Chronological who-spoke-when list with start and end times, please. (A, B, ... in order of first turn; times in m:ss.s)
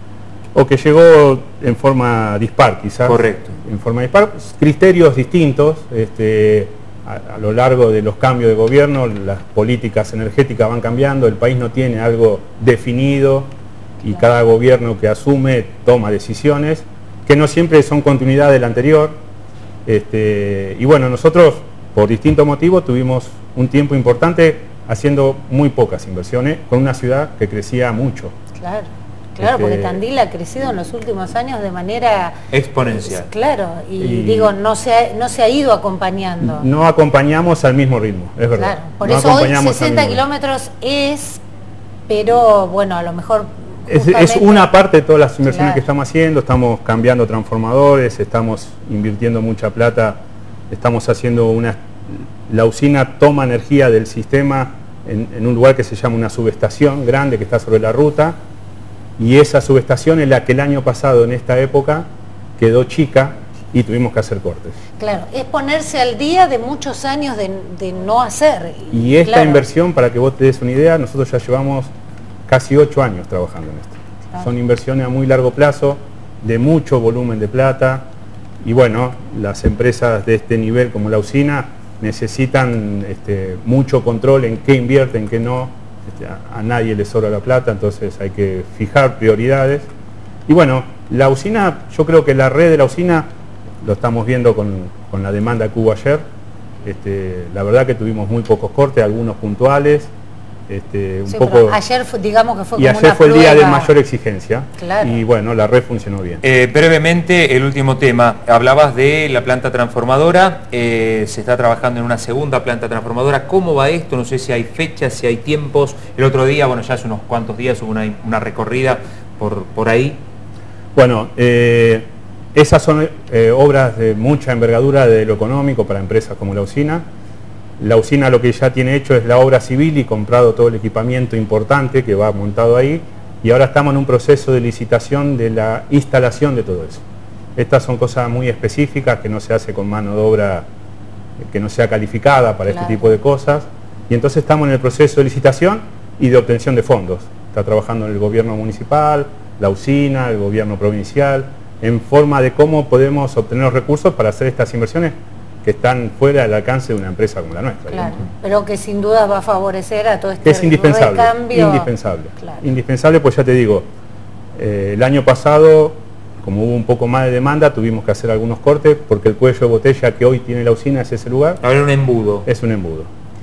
0:00.5-0:13.5 A
0:03.0-0:03.6 B
0:14.0-0:19.2 A
0:19.8-0:28.3 A
0:28.6-0:36.7 C
0:29.4-0:30.0 A
0:32.5-0:33.3 B
0:34.0-0:34.6 A
0:36.4-0:40.2 A
0:38.6-0:41.4 C
0:42.1-0:44.7 C
0:43.9-0:58.4 A
0:45.4-0:45.8 C
0:59.2-1:04.8 A
1:05.0-1:09.7 C
1:08.9-1:11.9 A
1:12.5-1:18.1 A
1:18.6-1:29.9 A
1:30.5-1:33.3 A
1:33.8-1:36.2 A
1:36.8-1:40.1 A
1:40.7-1:41.8 A
1:41.3-1:43.9 C
1:42.8-1:46.4 A
1:44.8-1:45.2 C
1:46.4-2:00.2 B
2:00.9-2:07.0 A
2:07.8-2:17.0 A
2:17.6-2:20.7 A
2:21.4-2:38.3 A
2:22.7-2:23.2 C
2:37.9-2:42.6 C
2:40.4-2:43.9 A
2:44.5-2:51.6 A
2:51.6-2:52.5 B
2:52.4-2:53.1 A